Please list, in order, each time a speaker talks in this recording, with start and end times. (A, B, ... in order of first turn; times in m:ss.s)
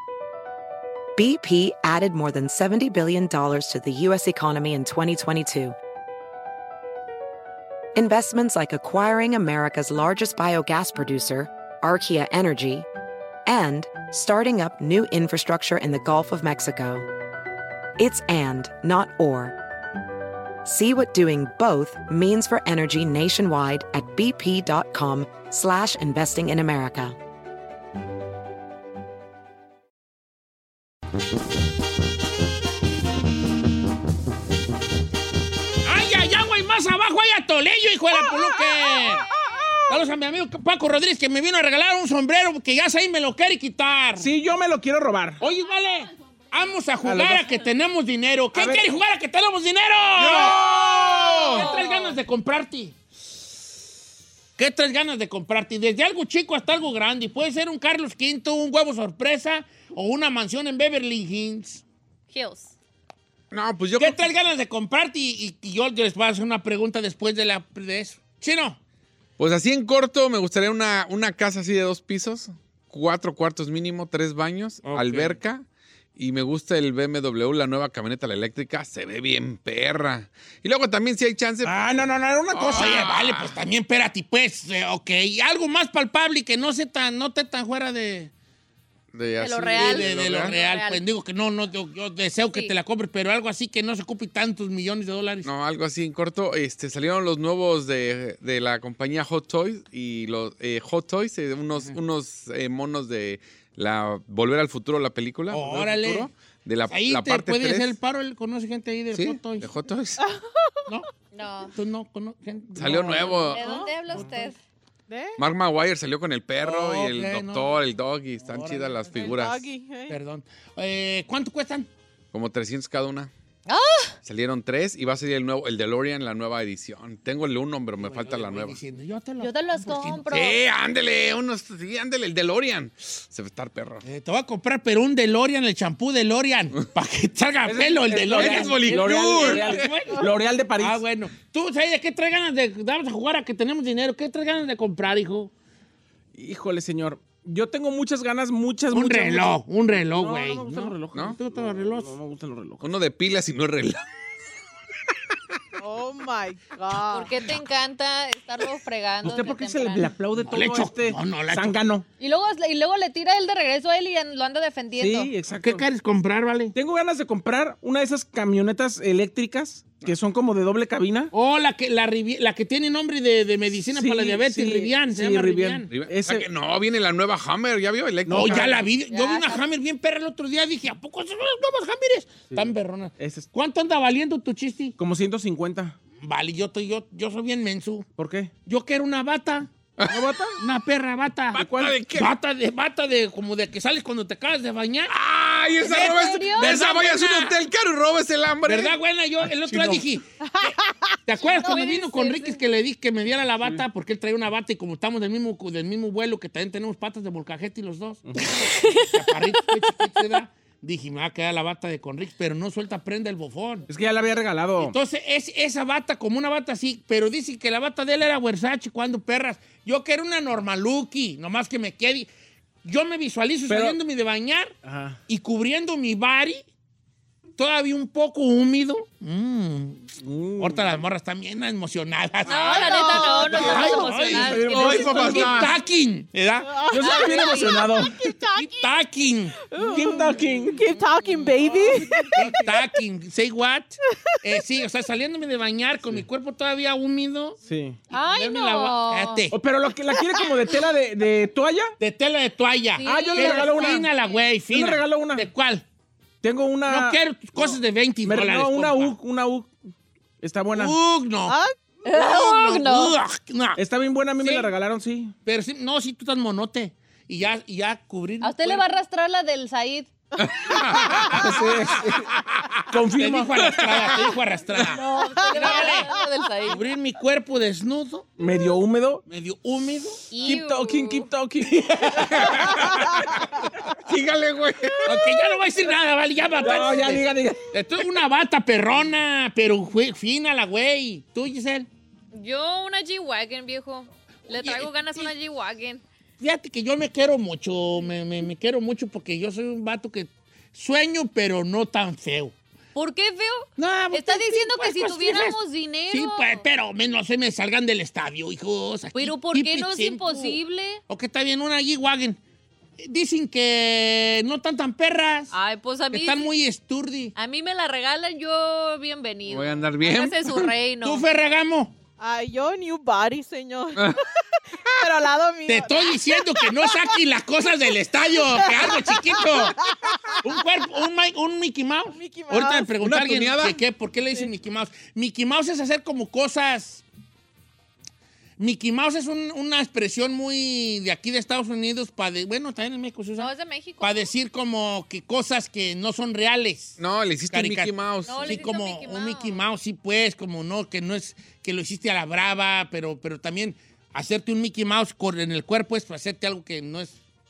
0:01.2-0:05.7 A
0:07.9-0:12.9 A
0:13.4-0:17.0 A
0:18.0-0:19.6 A
0:20.6-0:27.2 A
0:35.8-0:39.3 B
0:39.9-0:44.3 B
0:44.2-0:45.4 C
0:45.4-0:52.9 B
0:47.0-0:47.6 C
0:48.5-0:48.8 C
0:50.2-0:51.7 D
0:50.3-0:50.9 C
0:51.4-0:52.2 E
0:54.6-1:01.8 B
1:02.3-1:02.7 E
1:03.5-1:04.2 D
1:04.0-1:08.8 B
1:09.4-1:15.6 D
1:14.8-1:15.4 C
1:16.2-1:21.8 D
1:21.6-1:23.1 C
1:22.5-1:23.6 D
1:22.6-1:28.3 B
1:29.1-1:30.5 D
1:29.4-1:31.0 E
1:29.7-1:35.5 B
1:35.4-1:47.9 D
1:45.5-1:46.3 B
1:46.9-1:49.7 B
1:49.1-1:50.2 D
1:50.2-1:50.7 F
1:51.3-1:51.7 E
1:51.7-1:54.5 B
1:52.7-1:53.6 D
1:53.4-1:54.6 E
1:53.6-1:53.9 F
1:55.1-1:55.4 F
1:55.4-1:59.6 D
1:56.6-1:57.8 B
1:58.4-1:59.4 B
1:59.1-2:00.2 F
2:00.1-2:01.9 B
2:02.3-2:03.3 D
2:03.6-2:04.1 E
2:04.2-2:08.8 D
2:08.0-2:10.3 B
2:09.4-2:10.6 E
2:10.3-2:14.0 D
2:14.0-2:20.2 B
2:17.6-2:21.0 C
2:18.3-2:19.8 D
2:20.8-2:25.5 B
2:26.3-2:29.5 C
2:28.9-2:32.1 B
2:30.1-2:32.8 C
2:32.8-2:34.0 D
2:35.8-2:37.4 F
2:36.9-2:40.1 E
2:39.2-2:42.0 C
2:40.4-2:41.8 B
2:42.2-2:45.3 E
2:44.9-2:45.8 C
2:45.6-2:46.7 B
2:46.7-2:51.3 C
2:51.3-2:55.9 B
2:53.9-2:56.5 C
2:55.9-2:58.8 D
2:58.3-2:58.8 C
2:58.3-3:05.0 B
2:59.0-2:59.6 E
3:02.5-3:03.5 C
3:05.0-3:06.0 C
3:06.2-3:08.1 B
3:08.2-3:08.5 C
3:08.6-3:09.7 B
3:10.0-3:10.2 D
3:10.1-3:10.6 C
3:10.6-3:15.1 B
3:11.5-3:12.3 D
3:11.5-3:11.9 C
3:15.1-3:19.0 D
3:15.8-3:16.9 E
3:15.8-3:17.6 B
3:18.6-3:33.9 B
3:19.6-3:20.0 C
3:20.5-3:20.9 F
3:21.3-3:22.6 E
3:28.3-3:28.6 C
3:28.9-3:29.2 E
3:33.9-3:34.9 C
3:34.8-3:42.3 B
3:42.8-3:44.7 B
3:43.7-3:44.0 C
3:44.8-3:45.2 C
3:45.3-3:46.6 B
3:47.6-3:56.8 B
3:50.2-3:51.0 C
3:52.4-3:55.3 E
3:52.5-3:52.8 D
3:53.7-3:55.7 C
3:54.7-3:55.7 D
3:56.6-3:58.9 F
3:56.9-3:58.2 C
3:57.0-3:58.1 E
3:58.6-4:00.2 B
3:59.7-4:02.4 F
3:59.8-4:00.8 C
4:00.8-4:01.6 E
4:01.7-4:07.6 B
4:02.2-4:02.7 C
4:07.6-4:08.0 C
4:08.1-4:09.4 E
4:08.2-4:09.6 B
4:09.5-4:11.9 C
4:12.0-4:15.8 B
4:13.0-4:14.4 E
4:13.0-4:14.0 C
4:14.7-4:15.5 C
4:16.4-4:19.7 C
4:16.8-4:19.2 B
4:20.4-4:21.0 C
4:20.7-4:21.6 B
4:21.4-4:21.7 F
4:22.0-4:23.2 E
4:22.1-4:23.8 B
4:23.8-4:25.3 C
4:24.4-4:24.7 B
4:25.4-4:28.8 B
4:28.4-4:30.1 E
4:30.4-4:31.4 D
4:31.1-4:32.3 C
4:32.9-4:33.7 C
4:33.2-4:36.1 B
4:33.7-4:34.3 D
4:34.8-4:36.8 E
4:35.1-4:36.2 F
4:36.6-4:38.3 B
4:38.4-4:39.2 C
4:39.2-4:40.2 B
4:40.3-4:41.3 E
4:40.4-4:42.9 C
4:42.2-4:45.2 D
4:45.0-4:51.9 B
4:46.6-4:47.6 C
4:52.3-4:56.0 E
4:54.5-4:54.9 B
4:56.4-5:02.5 B
5:02.9-5:06.6 E
5:03.8-5:12.4 B
5:09.1-5:11.0 E
5:13.0-5:15.5 B
5:15.5-5:16.5 E
5:16.1-5:17.3 B
5:17.4-5:21.3 E
5:19.5-5:20.7 D
5:21.0-5:21.9 B
5:22.2-5:24.3 F
5:25.0-5:27.1 F
5:25.6-5:29.8 B
5:28.5-5:30.6 F
5:30.4-5:37.0 B
5:32.1-5:32.9 F
5:33.0-5:33.8 D
5:38.6-5:43.5 B
5:43.4-5:44.3 E
5:44.0-5:57.2 B
5:47.0-5:48.5 D
5:48.2-5:49.6 E